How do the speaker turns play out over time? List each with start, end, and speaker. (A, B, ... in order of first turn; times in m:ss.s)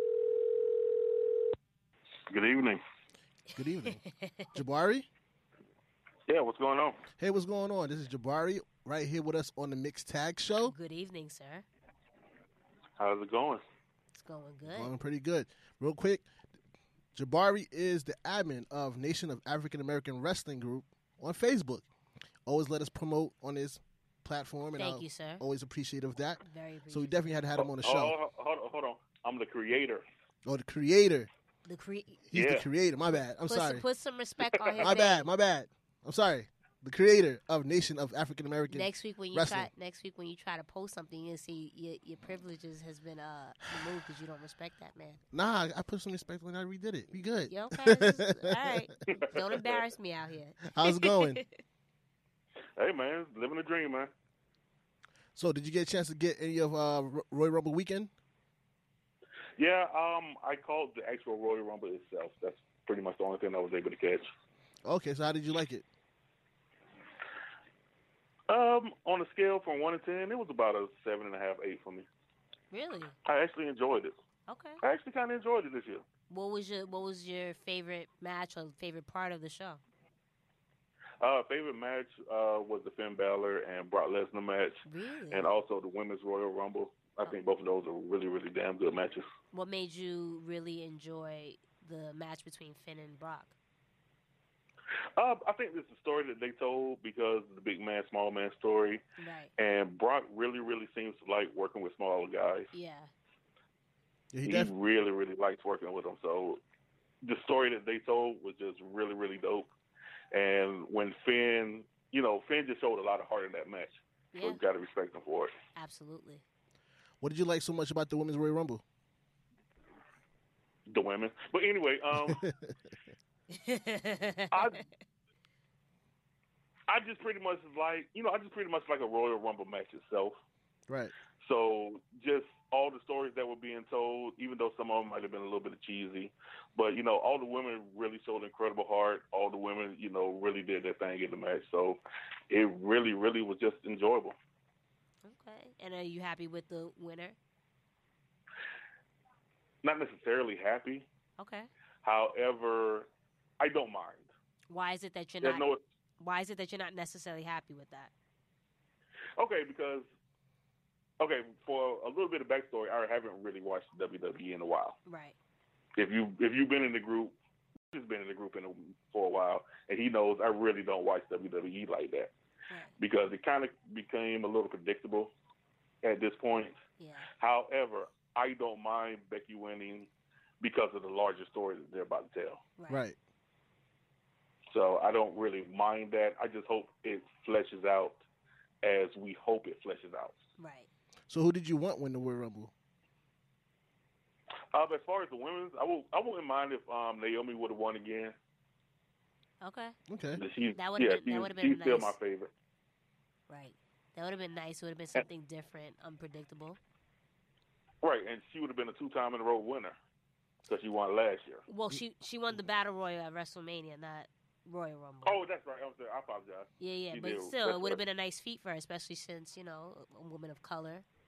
0:02.3-0:02.8 A
0:03.6-0:04.0 B
0:03.8-0:04.5 C
0:04.5-0:05.1 B
0:06.3-0:07.0 A
0:07.2-0:10.8 B
0:10.6-0:11.6 C
0:13.0-0:13.6 A
0:14.1-0:14.9 C
0:14.7-0:16.2 B
0:17.2-0:21.9 B
0:22.5-0:28.2 B
0:24.8-0:25.4 C
0:26.4-0:27.2 C
0:27.6-0:30.0 A
0:30.4-0:31.3 B
0:31.7-0:32.2 C
0:32.3-0:33.8 B
0:32.3-0:32.7 A
0:33.5-0:35.2 C
0:34.8-0:39.7 B
0:38.7-0:45.2 C
0:45.3-0:48.7 B
0:47.5-0:51.6 C
0:49.1-0:49.8 A
0:50.6-0:51.4 B
0:52.8-0:54.1 A
0:55.4-0:58.1 B
0:59.6-1:04.3 A
1:04.8-1:05.9 B
1:08.5-1:12.1 A
1:12.7-1:13.2 C
1:13.2-1:14.1 A
1:14.5-1:14.8 C
1:14.8-1:16.0 A
1:16.3-1:19.8 C
1:21.2-1:29.3 A
1:24.8-1:25.5 C
1:29.5-1:33.5 C
1:35.2-1:39.0 A
1:39.2-1:39.5 C
1:39.6-1:42.7 A
1:42.7-1:43.1 C
1:44.3-1:44.7 B
1:44.5-1:46.6 A
1:47.2-1:49.7 A
1:50.3-1:55.5 A
1:54.3-1:54.6 C
1:55.8-1:56.4 C
1:57.2-1:58.8 B
2:00.9-2:02.4 A
2:02.2-2:02.8 B
2:03.5-2:04.9 C
2:04.5-2:04.8 A
2:06.9-2:10.4 A
2:11.4-2:24.4 A
2:25.2-2:27.4 C
2:29.8-2:31.1 A
2:31.4-2:31.7 C
2:32.0-2:33.1 A
2:33.6-2:34.3 A
2:34.7-2:35.7 C
2:35.4-2:35.8 A
2:36.2-2:38.1 C
2:39.4-2:40.1 A
2:41.2-2:45.0 A
2:45.1-2:45.4 C
2:46.0-2:47.4 A
2:47.9-2:52.3 A
2:53.0-2:55.3 A
2:56.0-2:56.8 A
2:57.0-2:57.3 C
2:57.4-3:00.1 A
3:00.6-3:02.6 A
3:02.8-3:03.0 C
3:02.9-3:03.2 B
3:04.7-3:08.2 A
3:08.8-3:10.4 A
3:10.6-3:10.9 C
3:11.3-3:12.7 B
3:14.7-3:18.4 A
3:19.6-3:20.0 C
3:20.1-3:20.4 B
3:20.4-3:22.5 A
3:20.8-3:22.1 C
3:23.5-3:26.8 C
3:28.0-3:30.0 A
3:30.7-3:31.6 A
3:31.7-3:35.4 C
3:35.2-3:38.0 A
3:36.8-3:41.0 C